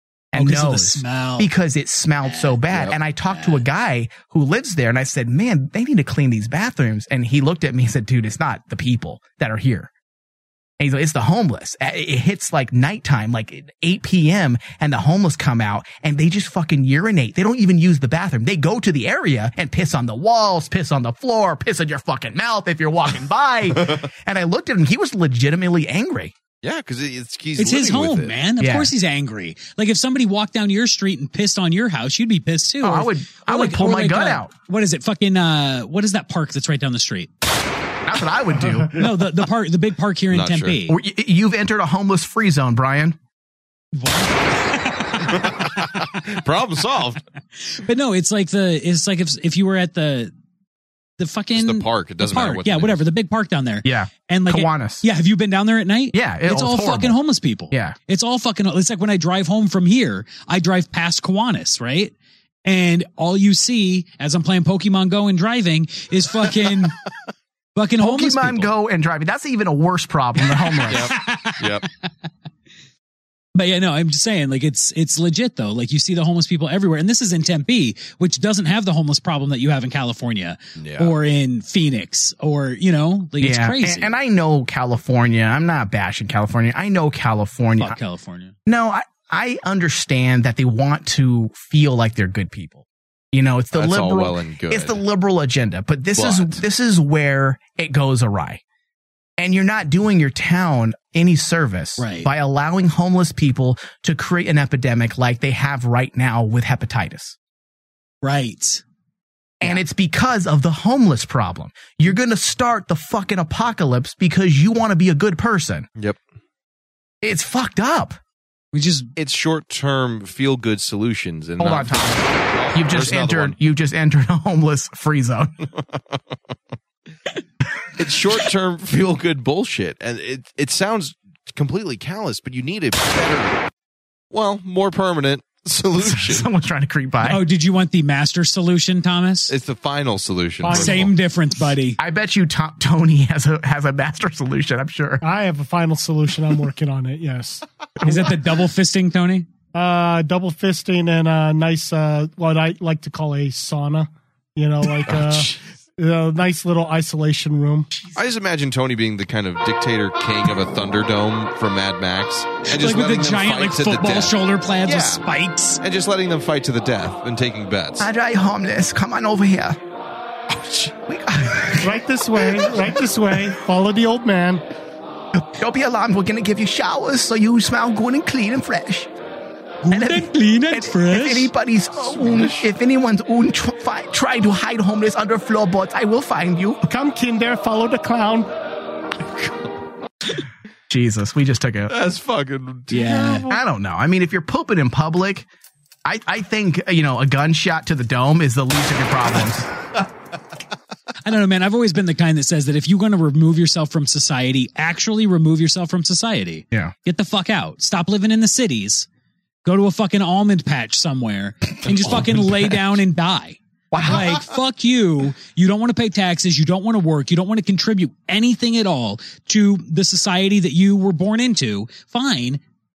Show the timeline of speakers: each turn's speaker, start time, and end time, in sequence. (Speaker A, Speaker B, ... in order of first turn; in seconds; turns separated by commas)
Speaker A: 0.3-9.9, Speaker B: 0.3-1.5, Speaker B: 2.2-3.6, Speaker A: 10.8-26.3, Speaker C: 26.6-28.3, Speaker B: 27.6-37.3, Speaker A: 28.6-28.9, Speaker A: 32.8-34.5, Speaker A: 38.0-39.0, Speaker B: 38.9-41.0, Speaker C: 40.3-40.8, Speaker A: 40.9-43.1, Speaker B: 43.9-45.5, Speaker C: 45.3-47.2, Speaker B: 47.7-50.3, Speaker B: 51.2-62.1, Speaker C: 51.5-53.0, Speaker A: 53.8-55.0, Speaker A: 56.1-57.2, Speaker A: 57.7-58.0, Speaker B: 62.6-66.9, Speaker B: 67.7-68.7, Speaker A: 68.0-71.2, Speaker B: 70.7-71.6, Speaker C: 70.9-71.9, Speaker B: 73.5-84.1, Speaker C: 80.8-81.1, Speaker A: 83.4-88.0, Speaker B: 87.8-88.5, Speaker A: 88.7-98.6, Speaker C: 93.7-95.0, Speaker C: 96.2-96.6, Speaker A: 99.4-107.4, Speaker B: 102.0-102.3, Speaker B: 108.2-108.8, Speaker A: 109.6-115.9, Speaker A: 117.2-118.2, Speaker B: 118.7-119.1, Speaker C: 119.2-123.5, Speaker A: 121.6-125.5, Speaker C: 128.0-133.7, Speaker C: 134.3-136.5, Speaker A: 136.0-137.4, Speaker B: 137.2-139.5, Speaker C: 139.5-141.1, Speaker B: 140.7-142.0, Speaker D: 140.7-141.0, Speaker A: 142.0-145.2, Speaker D: 145.2-147.6, Speaker A: 148.0-148.3, Speaker B: 148.0-149.5, Speaker D: 149.7-157.9, Speaker C: 158.1-165.2, Speaker B: 162.7-165.8, Speaker C: 165.8-168.1, Speaker A: 168.0-169.8, Speaker A: 170.5-173.0, Speaker D: 171.8-174.6, Speaker A: 175.4-179.1, Speaker B: 179.8-181.5, Speaker A: 179.9-186.8, Speaker C: 182.0-182.7, Speaker D: 186.9-188.5, Speaker A: 190.9-191.9, Speaker C: 191.9-193.6, Speaker B: 192.9-193.5, Speaker A: 193.5-195.5, Speaker A: 196.0-199.7, Speaker B: 201.2-209.1, Speaker B: 209.6-222.6, Speaker A: 213.9-214.4